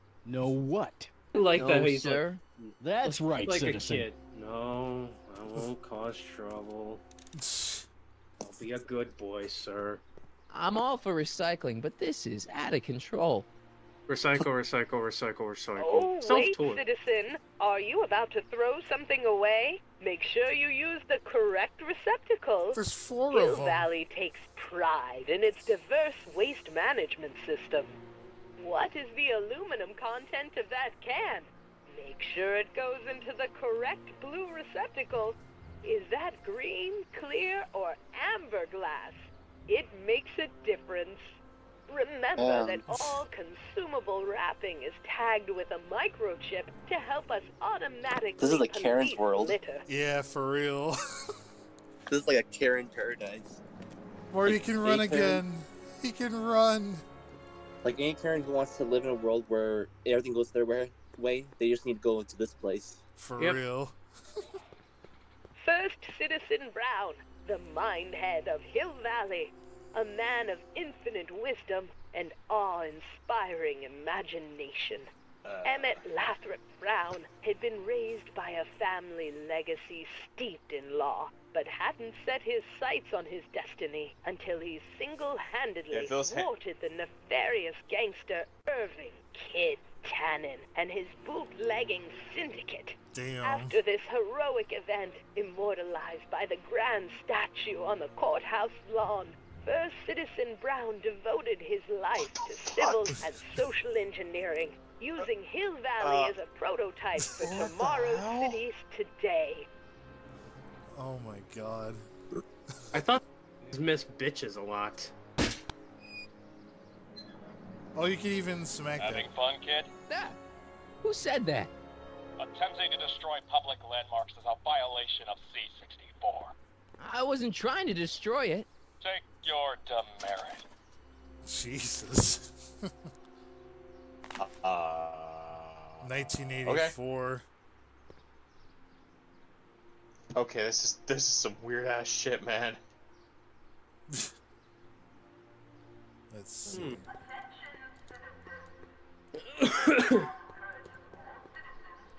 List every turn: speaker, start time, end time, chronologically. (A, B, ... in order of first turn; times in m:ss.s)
0:00.2-0:01.1 A
0:01.3-0:07.0 B
0:01.4-0:02.4 C
0:02.8-0:04.1 A
0:07.4-0:07.9 D
0:08.4-0:10.0 B
0:10.5-0:13.5 C
0:14.1-0:16.8 B
0:15.8-0:27.9 E
0:22.7-0:23.9 D
0:28.6-0:41.4 E
0:41.9-0:49.8 E
0:42.4-0:43.1 F
0:48.4-0:49.6 F
0:49.9-0:51.3 D
0:52.1-0:53.6 F
0:54.3-0:57.0 D
0:54.4-0:55.4 F
0:57.8-1:03.0 F
1:03.2-1:04.0 D
1:05.6-1:15.1 E
1:15.4-1:16.0 G
1:15.6-1:49.7 E
1:25.9-1:26.5 G
1:33.1-1:33.8 D
1:42.2-1:43.1 G
1:46.0-1:46.4 G
1:47.2-1:47.7 D
1:47.4-1:48.6 G
1:50.9-1:52.0 D
1:52.9-1:55.1 B
1:57.9-1:59.3 D
1:59.0-1:59.9 H
2:00.1-2:00.4 C
2:01.0-2:01.7 C
2:02.4-2:06.5 H
2:07.0-2:08.7 C
2:09.0-2:10.6 H
2:11.4-2:12.9 D
2:14.4-2:16.0 G
2:16.0-2:17.4 D
2:16.6-2:16.9 G
2:20.3-2:22.8 G
2:26.3-2:27.2 D
2:26.7-2:27.0 B
2:29.5-2:30.3 B